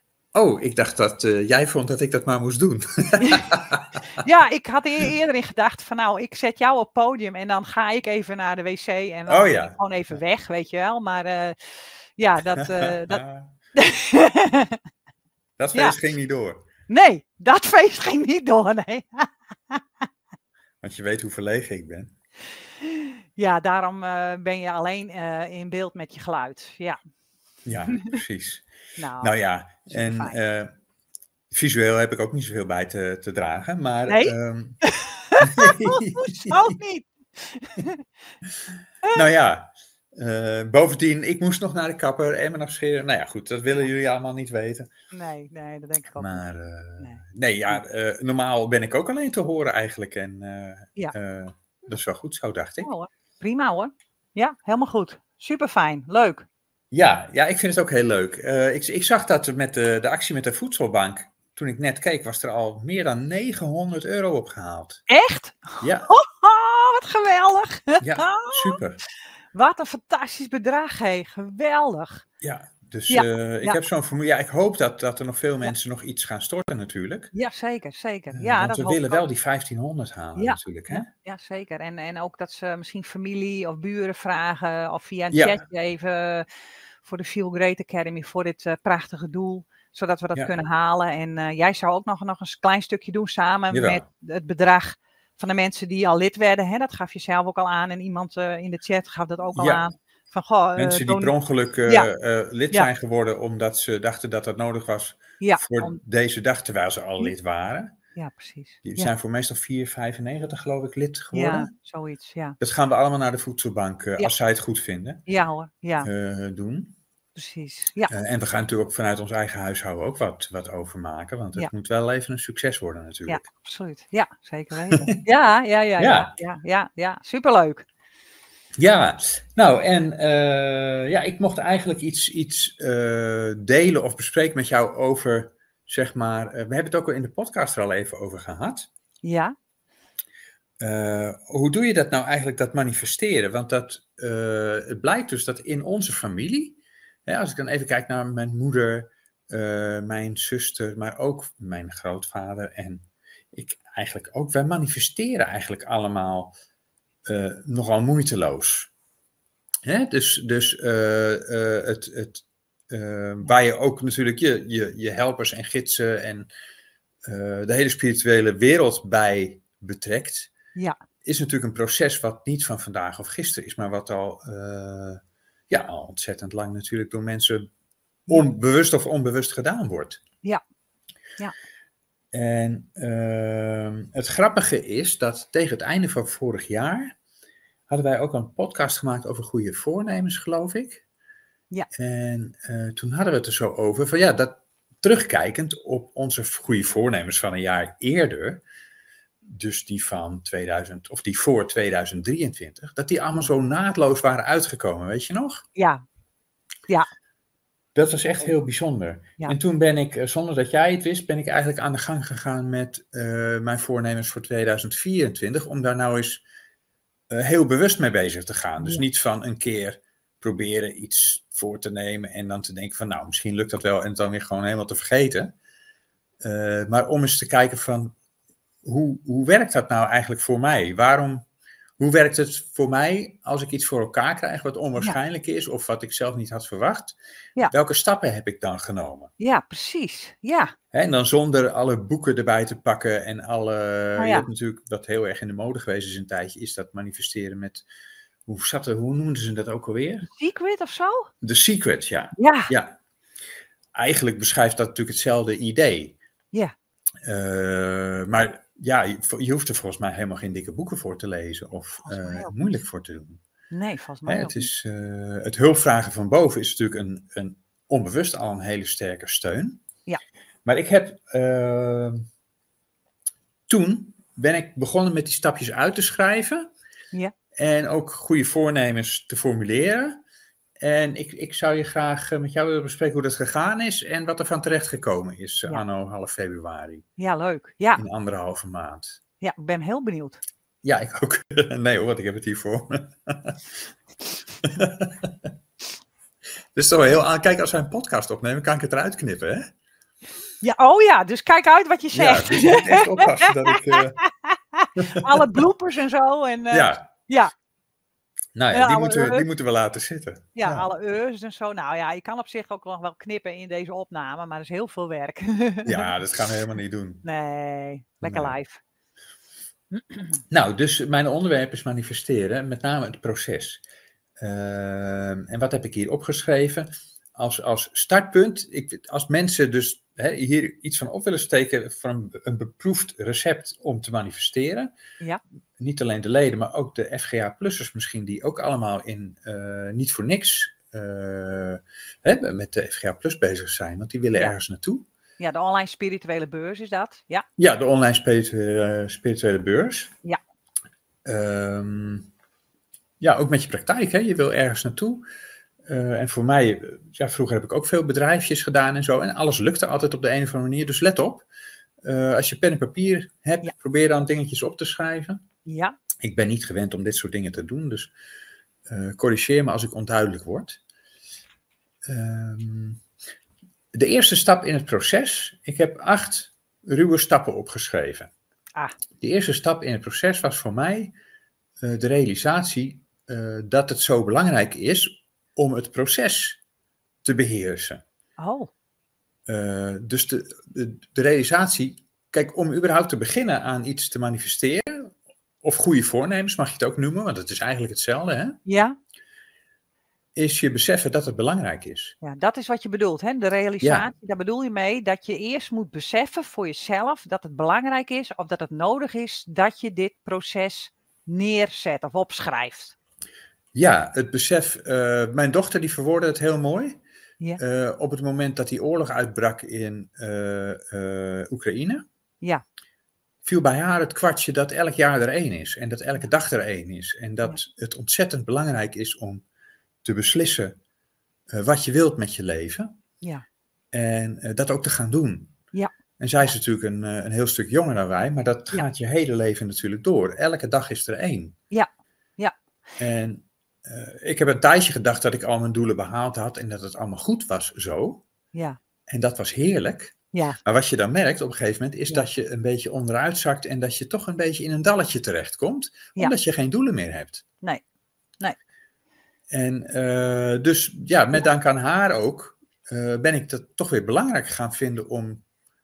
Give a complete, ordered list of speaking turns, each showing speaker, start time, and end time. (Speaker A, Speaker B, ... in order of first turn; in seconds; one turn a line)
Speaker A: 0.3-3.8
Speaker B: 3.2-3.5
Speaker B: 4.2-11.6
Speaker A: 9.3-10.1
Speaker B: 12.2-13.2
Speaker A: 12.6-13.5
Speaker B: 13.7-14.8
Speaker A: 15.6-16.6
Speaker B: 16.9-19.8
Speaker A: 20.8-22.1
Speaker B: 22.8-27.0
Speaker A: 27.6-28.6
Speaker B: 29.0-29.3
Speaker A: 29.2-30.7
Speaker B: 29.9-30.4
Speaker A: 31.5-34.8
Speaker B: 34.1-38.0
Speaker A: 35.4-36.8
Speaker A: 39.1-44.9
Speaker B: 45.1-46.4
Speaker A: 46.1-52.9
Speaker B: 47.0-47.8
Speaker B: 52.8-56.4
Speaker A: 56.9-65.0
Speaker B: 65.1-68.8
Speaker A: 65.8-66.1
Speaker A: 68.0-69.0
Speaker B: 69.5-72.2
Speaker A: 72.4-77.3
Speaker B: 73.1-73.8
Speaker B: 77.3-79.2
Speaker A: 78.3-81.1
Speaker B: 80.3-86.5
Speaker A: 85.3-85.6
Speaker B: 87.0-101.3
Speaker A: 93.7-94.0
Speaker A: 99.5-99.8
Speaker A: 100.8-107.9
Speaker B: 105.4-106.0
Speaker B: 108.2-109.1
Speaker A: 108.8-111.7
Speaker B: 111.3-112.6
Speaker A: 112.6-115.2
Speaker B: 115.3-116.1
Speaker A: 116.0-117.0
Speaker B: 117.3-118.1
Speaker A: 118.1-123.4
Speaker B: 123.3-127.8
Speaker A: 126.0-126.3
Speaker A: 128.8-138.9
Speaker B: 139.2-139.5
Speaker A: 140.8-156.5
Speaker A: 157.2-158.9
Speaker A: 159.8-166.5
Speaker A: 167.2-170.5
Speaker A: 171.2-177.7
Speaker A: 178.3-180.2
Speaker A: 182.3-187.1
Speaker A: 187.9-191.0
Speaker A: 191.9-198.6
Speaker A: 199.4-205.6
Speaker B: 205.7-206.0
Speaker A: 207.9-216.4
Speaker A: 217.3-225.5
Speaker A: 226.4-228.1
Speaker A: 228.8-231.4
Speaker A: 232.0-239.3
Speaker B: 239.4-240.7
Speaker A: 240.9-247.8
Speaker B: 244.2-244.5
Speaker A: 248.5-250.3
Speaker B: 250.3-251.3
Speaker A: 251.4-253.0
Speaker B: 252.4-252.7
Speaker A: 253.9-256.2
Speaker A: 257.2-263.4
Speaker B: 262.0-262.5
Speaker B: 263.7-264.7
Speaker A: 264.2-269.8
Speaker A: 270.6-272.2
Speaker A: 273.7-276.7
Speaker A: 277.6-280.2
Speaker A: 280.8-287.1
Speaker B: 287.2-288.0
Speaker A: 287.9-289.2
Speaker B: 289.4-290.4
Speaker A: 290.8-293.6
Speaker A: 294.6-295.3
Speaker A: 296.7-299.7
Speaker B: 300.6-307.5
Speaker A: 302.1-304.2
Speaker A: 305.1-305.5
Speaker A: 306.7-307.1
Speaker A: 308.6-310.9
Speaker B: 308.7-309.4
Speaker B: 310.6-316.1
Speaker A: 315.9-317.2
Speaker B: 317.2-318.8
Speaker A: 318.2-318.6
Speaker B: 319.9-320.4
Speaker A: 320.5-323.8
Speaker A: 324.4-334.9
Speaker A: 335.8-345.1
Speaker B: 345.4-347.4
Speaker A: 347.6-350.1
Speaker A: 351.2-352.3
Speaker A: 353.2-355.2
Speaker A: 355.9-361.4
Speaker A: 362.0-365.4
Speaker B: 365.6-365.9
Speaker A: 366.2-368.1
Speaker A: 368.9-370.8
Speaker A: 372.1-373.0
Speaker A: 373.9-378.3
Speaker A: 379.2-381.1
Speaker A: 381.8-386.6
Speaker A: 387.2-388.0
Speaker B: 388.4-388.7
Speaker A: 389.5-398.6
Speaker B: 398.6-398.9
Speaker A: 400.4-402.1
Speaker B: 402.2-412.9
Speaker A: 403.8-404.1
Speaker A: 413.7-417.0
Speaker A: 417.6-422.0
Speaker A: 423.4-429.4
Speaker A: 430.0-430.8
Speaker A: 431.5-432.9
Speaker A: 433.9-435.5
Speaker B: 435.7-436.5
Speaker A: 436.2-441.6
Speaker B: 441.7-442.5
Speaker A: 443.0-448.2
Speaker A: 449.1-457.4
Speaker B: 450.3-450.6
Speaker A: 459.5-465.4